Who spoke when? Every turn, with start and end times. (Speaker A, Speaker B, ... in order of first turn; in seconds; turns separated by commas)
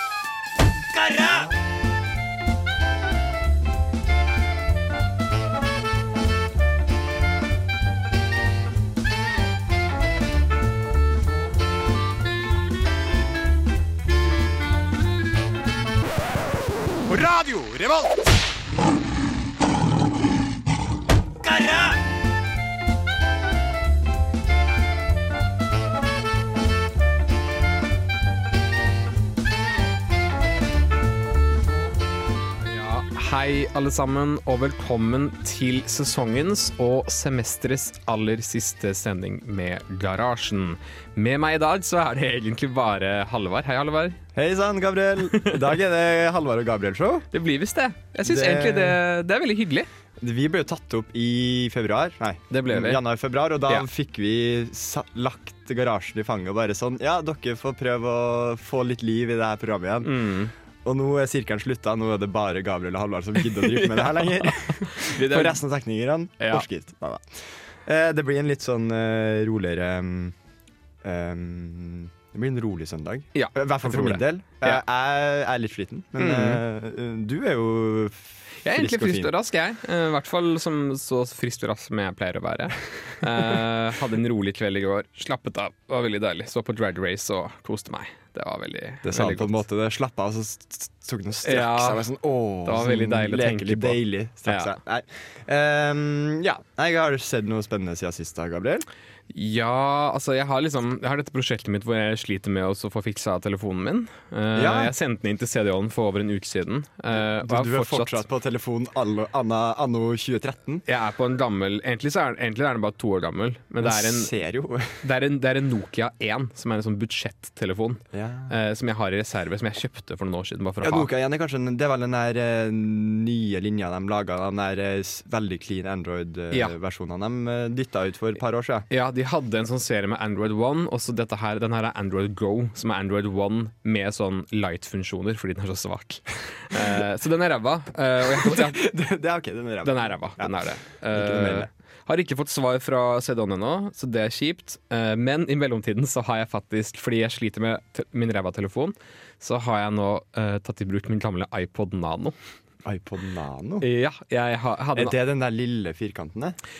Speaker A: 1.0-1.4, Speaker A: 17.1-18.1, Speaker A: 21.5-21.9, Speaker B: 32.6-44.2, Speaker C: 44.3-47.3, Speaker B: 47.3-49.9, Speaker C: 48.2-49.0, Speaker C: 50.2-60.3, Speaker B: 52.5-53.0, Speaker B: 60.0-60.5, Speaker C: 60.8-70.3, Speaker B: 63.4-65.6, Speaker B: 66.4-66.7, Speaker C: 71.0-79.3, Speaker B: 73.3-74.8, Speaker B: 76.2-76.6, Speaker B: 78.6-89.6, Speaker C: 89.0-98.9, Speaker B: 91.4-92.0, Speaker B: 92.6-94.7, Speaker B: 99.3-108.2, Speaker C: 104.5-104.9, Speaker C: 107.1-110.8, Speaker B: 110.8-114.3, Speaker C: 113.8-115.0, Speaker B: 115.0-121.1, Speaker C: 118.1-118.5, Speaker C: 120.8-128.9, Speaker B: 128.9-138.8, Speaker C: 138.2-141.7, Speaker B: 139.8-152.3, Speaker C: 152.8-153.8, Speaker B: 153.8-155.2, Speaker C: 154.9-156.6